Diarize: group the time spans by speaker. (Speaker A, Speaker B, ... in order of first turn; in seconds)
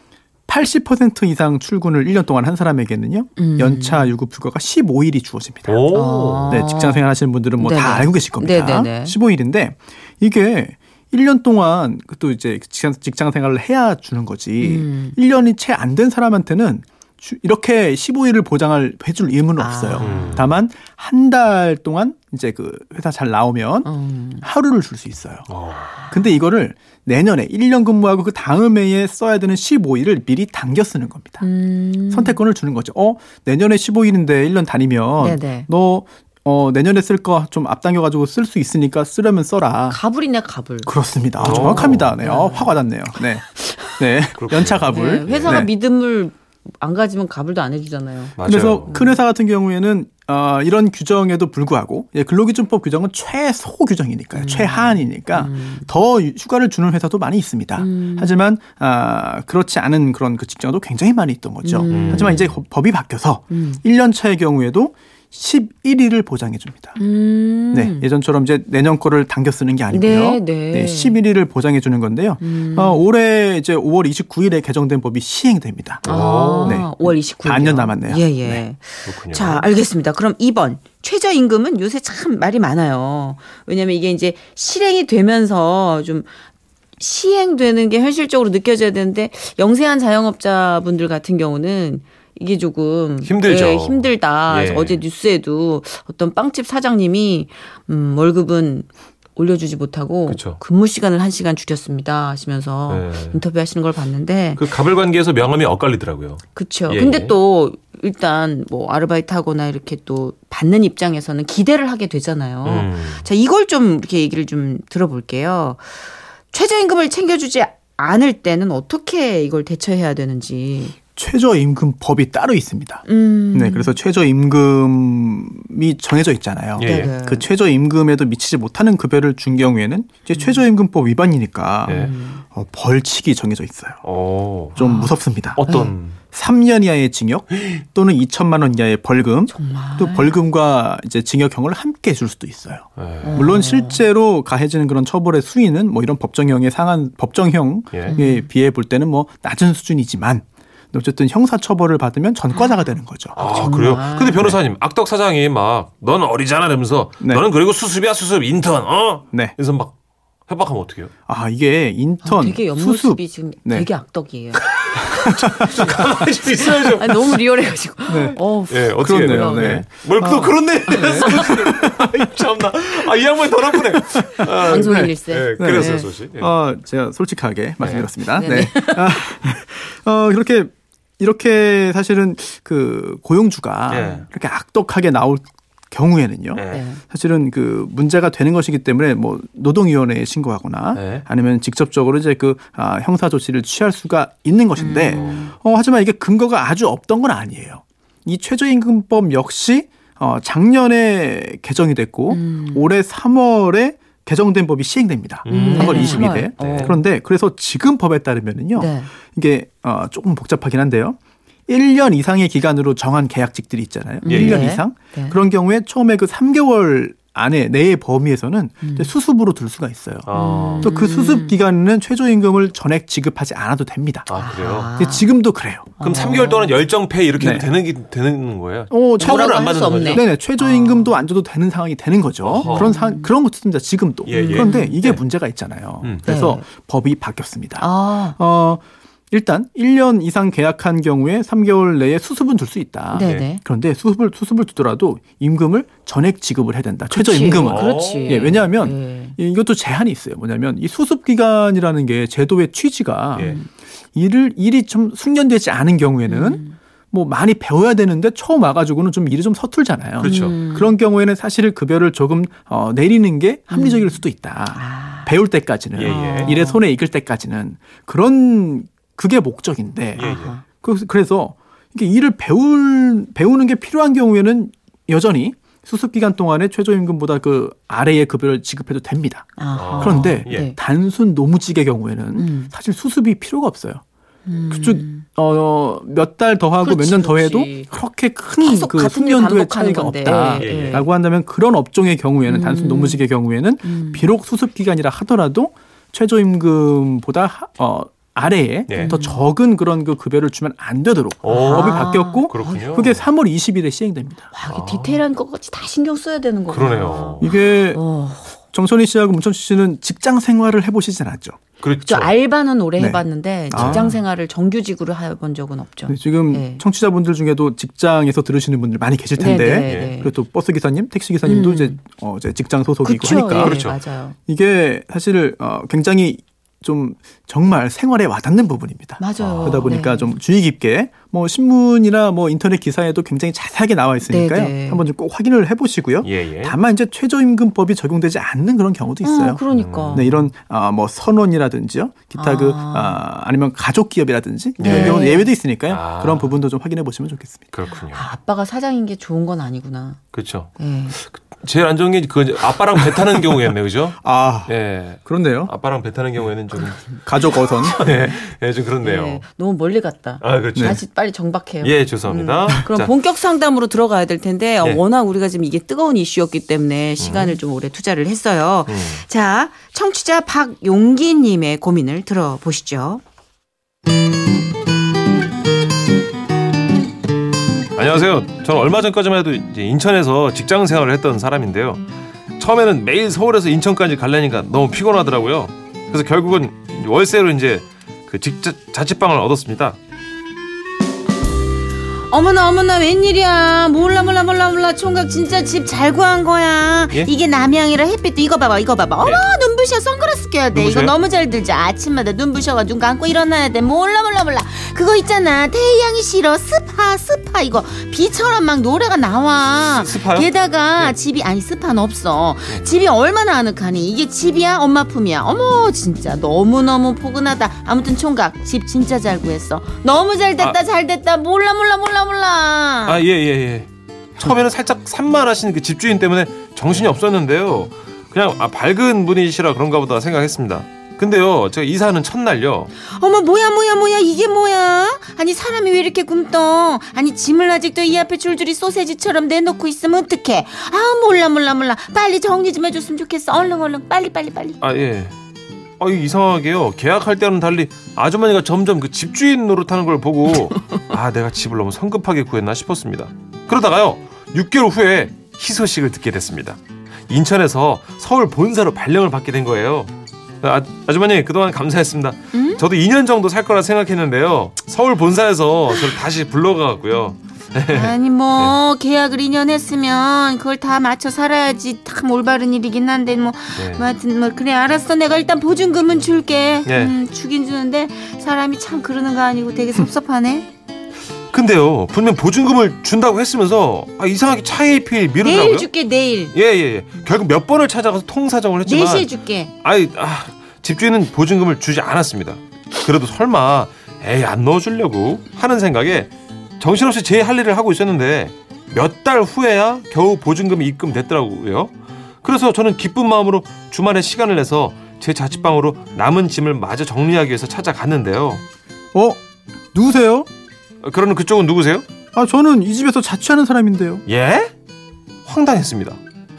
Speaker A: 0.5-5.9, 6.5-23.9, 24.4-25.5, 26.1-31.4, 32.1-40.0, 40.9-45.7, 48.4-67.0, 67.7-76.1, 76.6-78.6, 121.2-134.0, 134.8-135.8, 136.3-153.4, 161.3-163.9, 165.1-165.9, 168.1-168.4, 168.9-169.9, 171.0-171.9, 173.9-224.3, 225.0-225.9, 227.4-227.7, 228.9-253.6, 254.1-284.0, 284.7-304.5, 307.4-308.0, 308.7-311.6, 313.0-314.1, 316.1-323.8, 324.5-347.7, 354.2-354.7, 355.2-355.7, 357.2-358.1, 509.1-509.4, 509.9-510.5, 512.3-514.2
Speaker B: 3.4-4.1, 5.9-7.0, 7.6-9.2, 14.6-15.2, 19.6-20.5, 23.8-24.4, 31.4-32.4, 35.2-35.7, 39.9-40.9, 41.4-42.8, 44.9-49.2, 54.3-55.9, 57.8-58.3, 61.6-62.5, 63.5-63.8, 67.0-68.1, 69.9-71.2, 72.4-73.0, 76.0-86.3, 87.0-104.6, 106.5-116.0, 116.5-121.0, 123.0-124.0, 126.8-127.5, 130.3-130.6, 131.9-132.4, 134.8-135.1, 135.7-135.9, 139.5-140.4, 143.2-144.0, 148.1-148.5, 152.5-154.5, 162.2-164.6, 165.9-171.7, 174.6-176.1, 178.3-179.3, 186.7-187.0, 194.8-195.5, 202.3-202.9, 205.5-207.0, 208.8-209.1, 214.2-215.4, 218.8-219.1, 220.3-221.6, 224.4-225.3, 226.0-226.8, 229.2-231.1, 232.6-233.3, 234.3-235.0, 236.2-236.6, 237.8-238.4, 243.1-243.6, 247.1-249.3, 253.4-253.7, 256.3-256.8, 260.2-260.9, 263.7-264.2, 264.8-265.3, 266.0-266.8, 270.2-270.6, 279.6-280.8, 282.4-282.7, 284.4-285.2, 286.8-287.9, 288.6-291.1, 292.5-293.2, 293.8-294.3, 299.0-299.4, 301.5-303.0, 304.5-308.6, 312.0-316.8, 319.4-320.3, 321.4-322.0, 323.0-324.4, 329.2-330.3, 334.2-335.0, 339.2-340.3, 342.3-343.2, 344.8-345.5, 348.1-350.2, 350.8-351.2, 359.0-373.2, 392.3-423.2, 433.1-444.8, 462.5-462.8, 467.9-480.7, 485.4-486.5, 488.8-489.7
Speaker C: 5.6-6.6, 20.0-20.5, 25.5-25.9, 41.4-42.1, 44.4-45.6, 48.4-48.9, 61.9-62.5, 76.0-76.8, 79.0-79.7, 93.2-95.0, 100.3-100.6, 102.9-103.4, 104.6-107.3, 112.6-113.2, 126.8-127.1, 134.0-134.9, 135.5-136.2, 143.0-143.4, 153.3-159.9, 160.5-161.1, 164.8-167.4, 168.7-176.5, 177.8-178.1, 183.9-184.2, 186.5-186.8, 190.9-191.2, 195.1-195.5, 205.4-207.0, 214.3-214.7, 220.2-220.9, 224.3-224.9, 226.0-230.3, 232.4-232.9, 234.2-235.2, 243.2-243.5, 247.6-248.6, 260.2-260.6, 265.9-266.6, 270.2-270.5, 279.7-280.7, 290.6-291.1, 298.9-299.1, 301.4-303.2, 304.7-305.2, 306.7-307.5, 311.8-312.3, 313.7-314.2, 319.8-320.1, 323.5-324.0, 329.4-329.9, 336.2-336.8, 339.7-340.4, 344.8-345.3, 345.9-346.6, 347.7-348.2, 350.3-357.2, 357.8-359.4, 360.4-361.0, 361.8-363.1, 367.2-367.6, 368.9-369.2, 377.9-382.0, 382.6-389.9, 400.7-401.1, 409.9-411.1, 423.1-432.9, 444.8-445.3, 446.0-456.8, 457.3-468.8, 473.8-474.0, 476.9-477.1, 481.5-485.9, 486.5-489.3, 489.8-508.6, 511.0-512.0, 514.2-514.7, 515.5-516.2